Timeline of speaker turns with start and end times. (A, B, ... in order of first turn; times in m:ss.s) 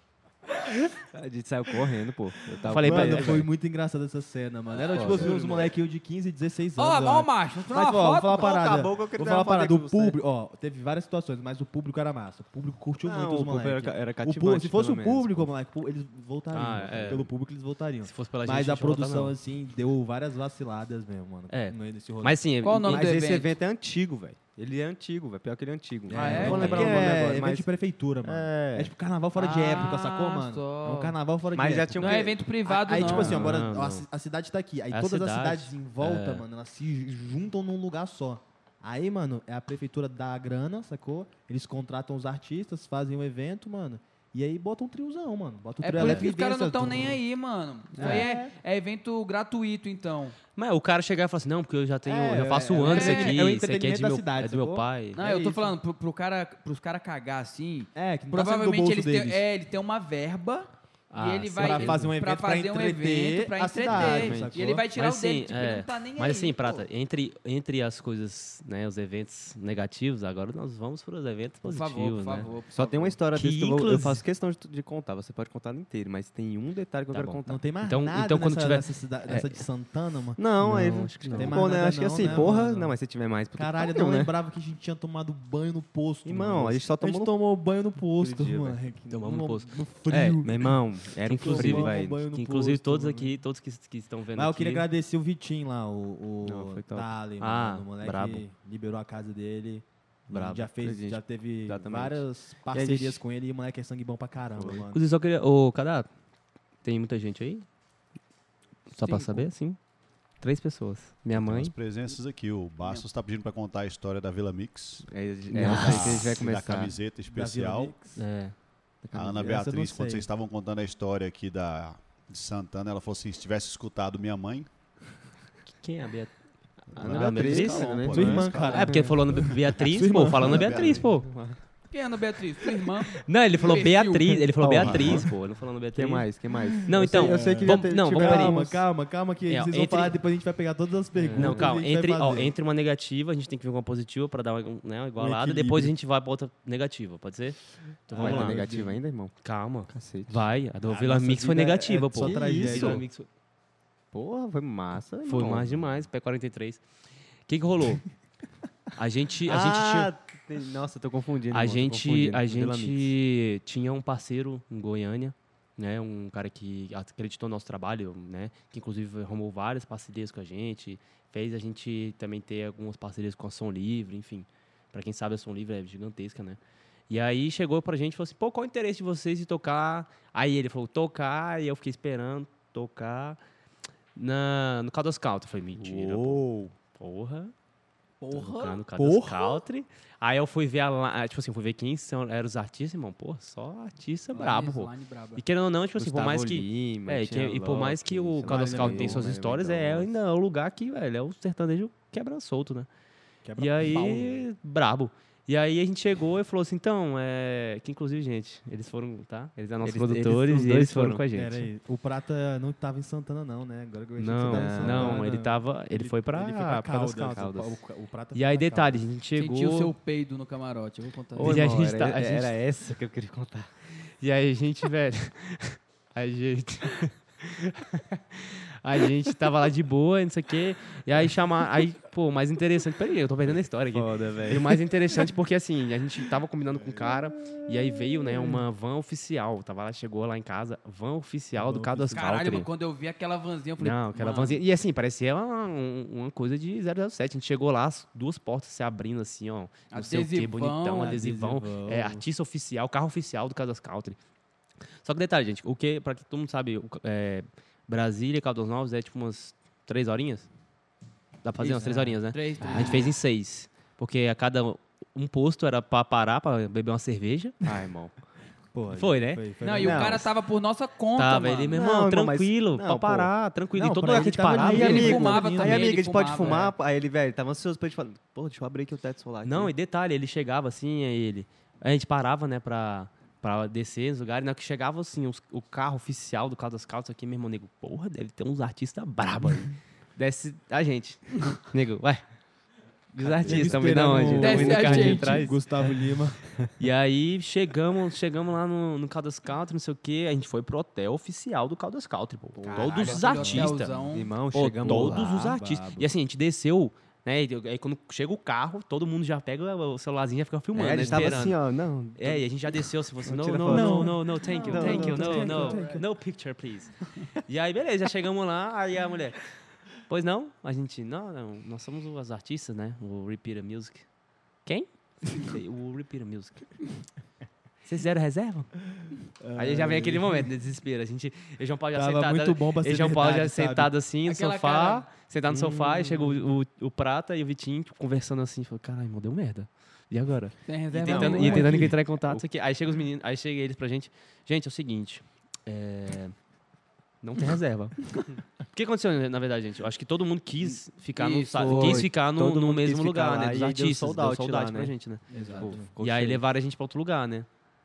0:01.1-0:03.5 A
0:02.6-0:03.5 B
0:02.8-0:22.4 C
0:04.9-0:05.7 A
0:06.8-0:08.5 D
0:08.3-0:10.2 A
0:13.0-0:15.5 A
0:16.5-0:17.3 B
0:18.0-0:19.4 B
0:21.5-0:23.1 B
0:22.6-0:23.5 D
0:22.8-0:27.7 A
0:26.1-0:47.2 C
0:26.1-0:26.7 D
0:26.2-0:27.2 B
0:28.2-0:28.9 A
0:29.4-0:31.2 D
0:31.5-0:32.4 A
0:32.0-0:33.5 D
0:33.0-0:34.0 B
0:34.9-0:36.4 B
0:45.8-0:50.4 D
0:48.0-0:48.5 C
0:50.6-0:55.2 B
0:52.1-0:55.8 C
0:52.8-0:53.4 D
0:55.2-1:06.8 D
0:58.0-0:59.4 C
1:01.1-1:02.1 B
1:01.6-1:04.8 C
1:03.9-1:04.5 A
1:05.0-1:12.5 B
1:11.6-1:13.2 D
1:12.7-1:17.6 A
1:13.3-1:14.2 B
1:17.1-1:19.6 B
1:17.5-1:20.4 C
1:20.4-1:24.3 A
1:20.6-1:22.5 B
1:21.3-1:23.0 C
1:23.6-1:33.4 C
1:26.2-1:27.4 A
1:28.2-1:28.8 A
1:29.1-1:29.7 B
1:30.1-1:32.2 A
1:31.2-1:34.9 B
1:34.4-1:45.0 C
1:36.4-1:37.1 A
1:37.4-1:38.4 B
1:40.3-1:40.6 B
1:40.7-1:43.2 A
1:44.6-1:44.8 A
1:44.9-1:46.1 B
1:46.8-1:47.6 B
1:48.9-1:49.8 B
1:49.1-1:49.4 A
1:50.4-1:51.7 B
1:51.4-1:58.0 E
1:55.1-1:57.0 A
1:55.5-1:56.3 B
1:57.2-1:58.2 C
1:58.2-1:59.0 B
1:59.1-1:59.5 A
1:59.1-2:04.7 E
1:59.3-2:00.3 C
2:05.7-2:06.4 B
2:06.9-2:11.3 B
2:07.0-2:09.0 E
2:07.0-2:09.1 A
2:07.1-2:11.0 C
2:10.5-2:11.1 E
2:10.6-2:11.6 A
2:11.9-2:14.5 D
2:13.2-2:16.3 B
2:14.6-2:15.3 A
2:14.8-2:15.3 E
2:14.9-2:15.2 C
2:15.9-2:18.8 A
2:16.7-2:22.5 C
2:16.9-2:18.6 B
2:19.5-2:20.2 B
2:21.2-2:28.6 B
2:21.3-2:21.7 A
2:25.2-2:25.9 C
2:28.1-2:29.0 C
2:28.1-2:29.3 A
2:29.4-2:33.3 B
2:29.9-2:33.1 A
2:31.4-2:33.0 C
2:34.1-2:35.9 A
2:35.3-2:36.8 B
2:37.5-2:38.1 B
2:39.0-2:40.1 B
2:39.5-2:43.1 A
2:41.5-2:56.6 B
2:57.1-3:03.4 B
3:04.2-3:07.5 B
3:05.8-3:06.7 A
3:08.2-3:08.8 D
3:08.3-3:22.9 B
3:09.0-3:09.6 C
3:14.3-3:15.4 D
3:16.0-3:20.1 A
3:18.4-3:19.3 C
3:23.4-3:24.4 C
3:23.6-3:31.7 B
3:29.8-3:31.2 A
3:31.3-3:39.0 C
3:34.2-3:37.4 B
3:34.5-3:35.2 A
3:37.3-3:37.7 A
3:38.3-3:39.9 B
3:39.4-3:41.6 D
3:41.4-3:43.7 A
3:41.4-3:42.6 B
3:44.2-4:02.7 B
3:53.9-3:55.2 A
4:01.5-4:02.3 C
4:02.1-4:04.6 D
4:03.8-4:14.2 B
4:09.9-4:11.2 D
4:11.0-4:12.3 C
4:15.0-4:20.5 B
4:21.4-4:27.6 B
4:21.6-4:22.2 C
4:22.3-4:23.1 D
4:22.6-4:22.9 A
4:27.6-4:28.1 A
4:28.7-4:30.2 C
4:28.9-4:29.4 B
4:29.6-4:31.8 D
4:29.8-4:30.3 A
4:31.2-4:35.1 B
4:31.7-4:33.3 A
4:33.8-4:36.0 C
4:34.1-4:39.7 A
4:34.7-4:36.7 D
4:39.4-4:52.2 B
4:53.2-4:55.6 B
4:53.2-4:56.4 C
4:53.3-4:55.4 A
4:54.4-4:55.5 D
4:56.8-5:03.9 B
5:02.6-5:05.5 A
5:02.7-5:04.3 D
5:03.2-5:03.8 C
5:04.5-5:11.6 B
5:04.8-5:06.1 C
5:10.7-5:12.5 A
5:10.9-5:11.4 C
5:12.2-5:19.4 B
5:13.2-5:15.9 A
5:13.7-5:16.0 C
5:20.1-5:24.1 B
5:24.6-5:26.8 B
5:27.8-5:28.7 B
5:29.4-5:30.5 C
5:29.6-5:46.4 B
5:31.9-5:33.9 C
5:34.2-5:35.1 D
5:35.5-5:36.4 C
5:40.7-5:41.9 D
5:41.0-5:42.4 A
5:41.4-5:42.0 C
5:47.2-5:57.5 B
5:51.2-5:52.1 D
5:51.2-5:56.4 A
5:55.3-5:55.9 C
5:55.3-5:55.6 D